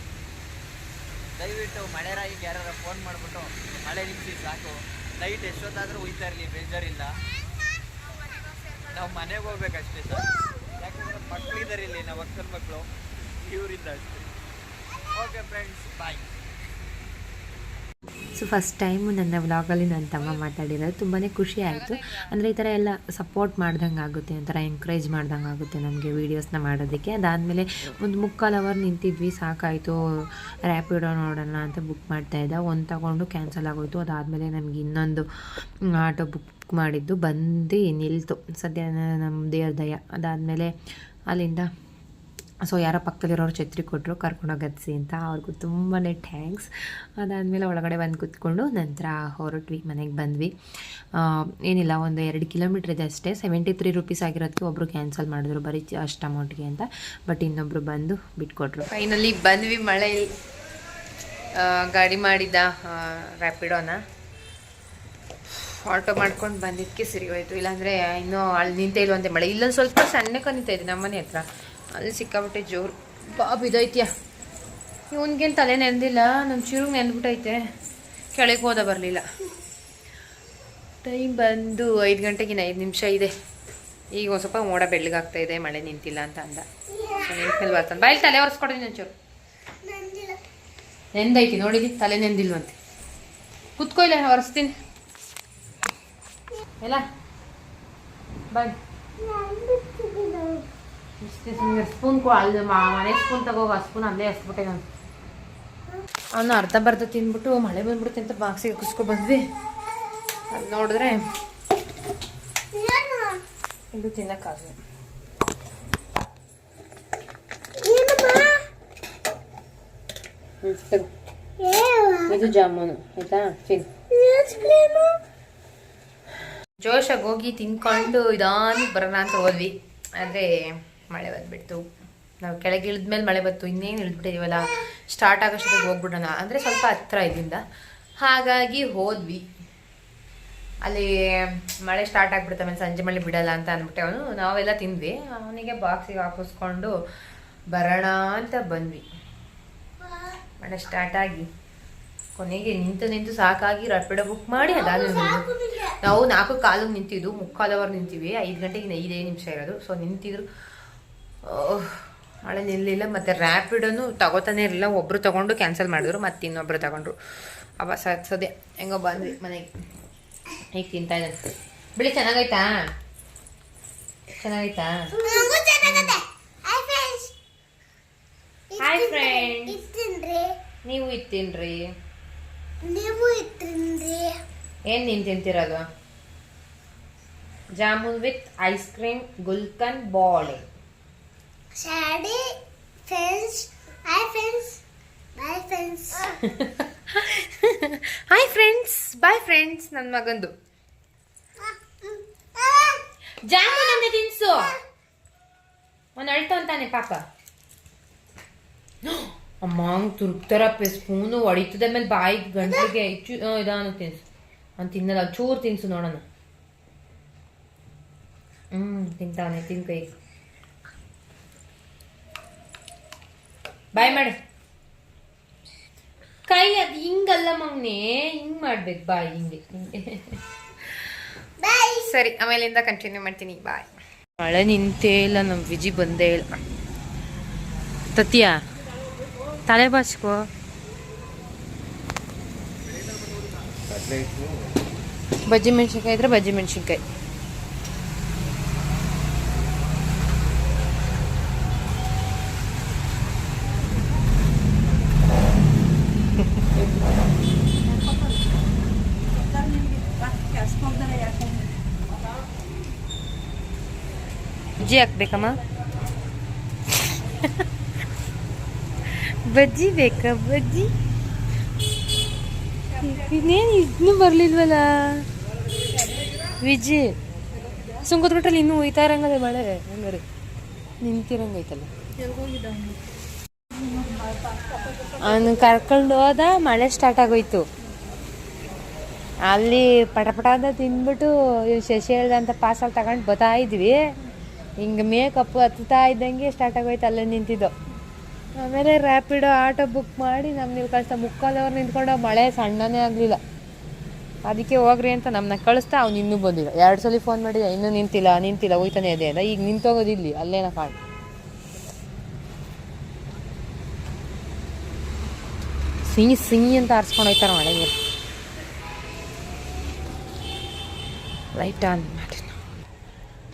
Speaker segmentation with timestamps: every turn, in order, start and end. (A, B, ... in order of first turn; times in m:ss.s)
0:01.4-0:07.2 A
0:08.8-0:10.3 A
0:10.8-0:12.9 A
0:13.4-0:14.3 A
0:15.1-0:16.2 A
0:18.3-0:40.7 B
0:21.6-0:22.3 C
0:41.3-0:41.7 B
0:42.6-0:50.5 B
0:51.1-0:58.9 B
0:58.9-1:00.3 C
1:01.5-1:04.0 C
1:05.4-1:14.1 C
1:15.1-1:17.6 C
1:18.3-1:19.2 C
1:21.0-1:23.3 C
1:24.1-1:29.1 C
1:30.0-1:30.3 D
1:31.1-1:32.8 C
1:33.8-1:34.8 C
1:38.5-1:38.8 C
1:39.3-1:40.6 D
1:41.2-1:44.8 C
1:46.3-1:49.5 C
1:50.5-1:51.3 C
1:52.8-1:53.4 D
1:53.9-1:54.8 C
1:57.8-1:58.6 D
2:00.6-2:01.1 C
2:01.7-2:02.2 D
2:02.2-2:04.1 C
2:04.3-2:05.0 D
2:06.8-2:11.8 C
2:12.4-2:17.6 C
2:18.2-2:19.4 C
2:20.8-2:26.9 C
2:27.7-2:29.0 C
2:30.6-2:31.5 C
2:32.4-2:40.5 C
2:41.4-2:49.7 C
2:50.7-2:51.4 C
2:52.0-2:52.9 C
2:54.4-2:56.2 C
2:55.3-2:55.9 D
2:56.6-2:57.3 D
2:58.8-2:59.9 C
2:59.9-3:00.6 D
3:00.8-3:01.9 C
3:02.8-3:04.4 D
3:04.9-3:05.8 C
3:07.7-3:10.7 C
3:11.7-3:14.8 D
3:15.3-3:16.2 D
3:16.3-3:20.5 C
3:22.6-3:23.0 D
3:23.4-3:24.8 C
3:26.2-3:27.2 C
3:29.0-3:34.2 C
3:34.8-3:36.2 C
3:38.7-3:40.1 C
3:43.9-3:44.4 C
3:46.5-3:56.6 C
3:58.1-3:58.6 C
3:59.7-4:00.4 C
4:02.8-4:04.5 A
4:05.4-4:07.0 C
4:24.8-4:25.6 C
4:26.9-4:27.6 C
4:29.1-4:30.9 C
4:33.0-4:35.3 C
4:36.6-4:37.1 C
4:38.0-4:40.2 C
4:41.0-4:41.9 C
4:45.2-4:47.6 C
4:49.4-4:54.1 C
4:54.8-4:57.7 C
4:58.5-5:03.4 C
5:04.4-5:11.0 C
5:16.0-5:17.9 C
5:21.5-5:22.6 C